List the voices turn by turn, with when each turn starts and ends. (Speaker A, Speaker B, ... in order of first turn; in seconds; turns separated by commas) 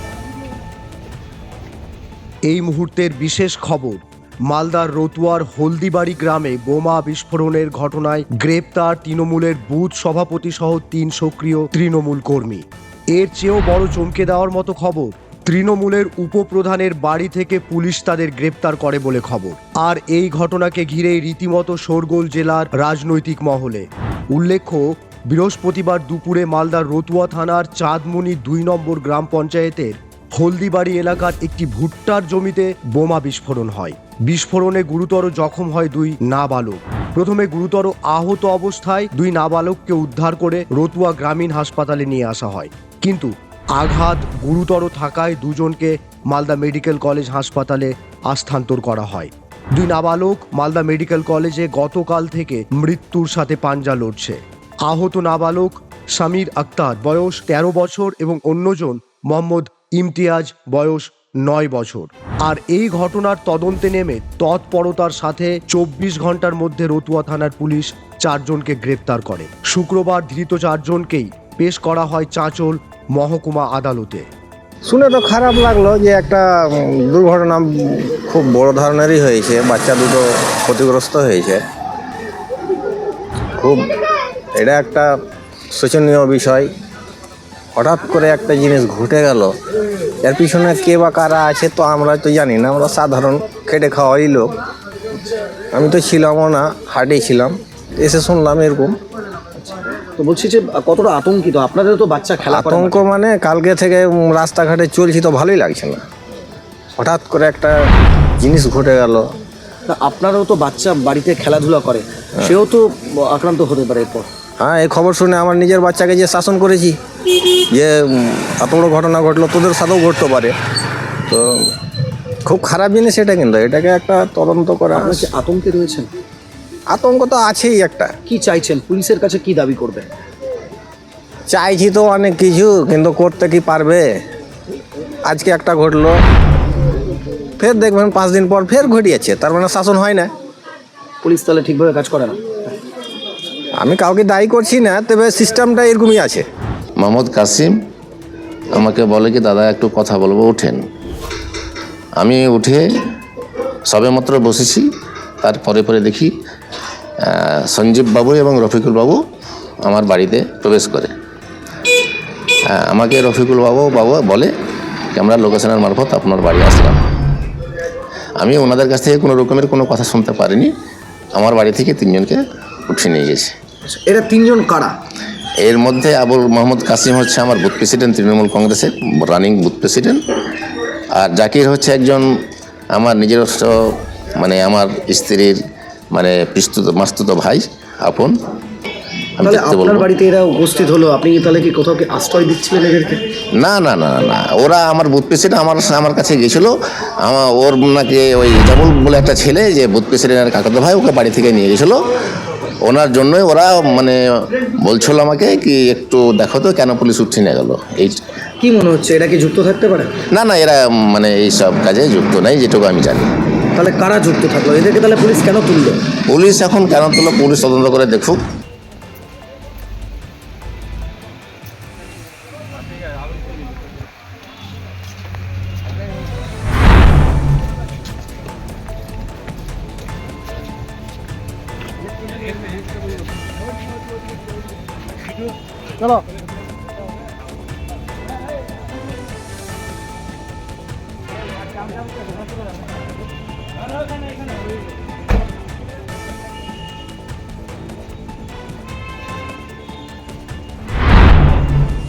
Speaker A: 2.5-74.3, Speaker B: 74.8-81.6, Speaker B: 83.6-83.8, Speaker B: 84.5-85.1, Speaker B: 85.7-86.7, Speaker B: 87.7-89.5, Speaker B: 90.2-94.5, Speaker B: 95.7-98.9, Speaker C: 100.2-103.0, Speaker B: 102.4-106.0, Speaker B: 107.0-107.8, Speaker B: 108.4-109.2, Speaker C: 109.9-114.3, Speaker B: 114.6-117.0, Speaker B: 117.7-120.5, Speaker B: 121.3-121.6, Speaker B: 122.4-125.3, Speaker C: 124.9-126.1, Speaker B: 126.9-128.1, Speaker C: 128.3-130.1, Speaker B: 131.5-134.1, Speaker B: 135.2-136.2, Speaker B: 137.6-140.3, Speaker C: 141.2-142.8, Speaker B: 143.8-146.5, Speaker D: 147.0-147.8, Speaker D: 148.7-150.8, Speaker D: 152.2-152.9, Speaker D: 153.9-154.9, Speaker D: 155.4-156.3, Speaker D: 157.2-159.2, Speaker D: 159.8-161.1, Speaker D: 162.7-164.5, Speaker D: 165.1-167.0, Speaker D: 168.4-170.7, Speaker D: 171.3-173.5, Speaker C: 173.8-175.0, Speaker D: 175.6-180.2, Speaker D: 181.2-182.2, Speaker D: 182.9-183.8, Speaker D: 184.4-185.6, Speaker D: 186.1-188.3, Speaker D: 189.4-190.1, Speaker C: 189.4-193.2, Speaker D: 193.6-202.0, Speaker D: 202.8-208.2, Speaker C: 208.6-210.1, Speaker D: 210.3-213.3, Speaker C: 213.8-216.0, Speaker D: 216.3-218.4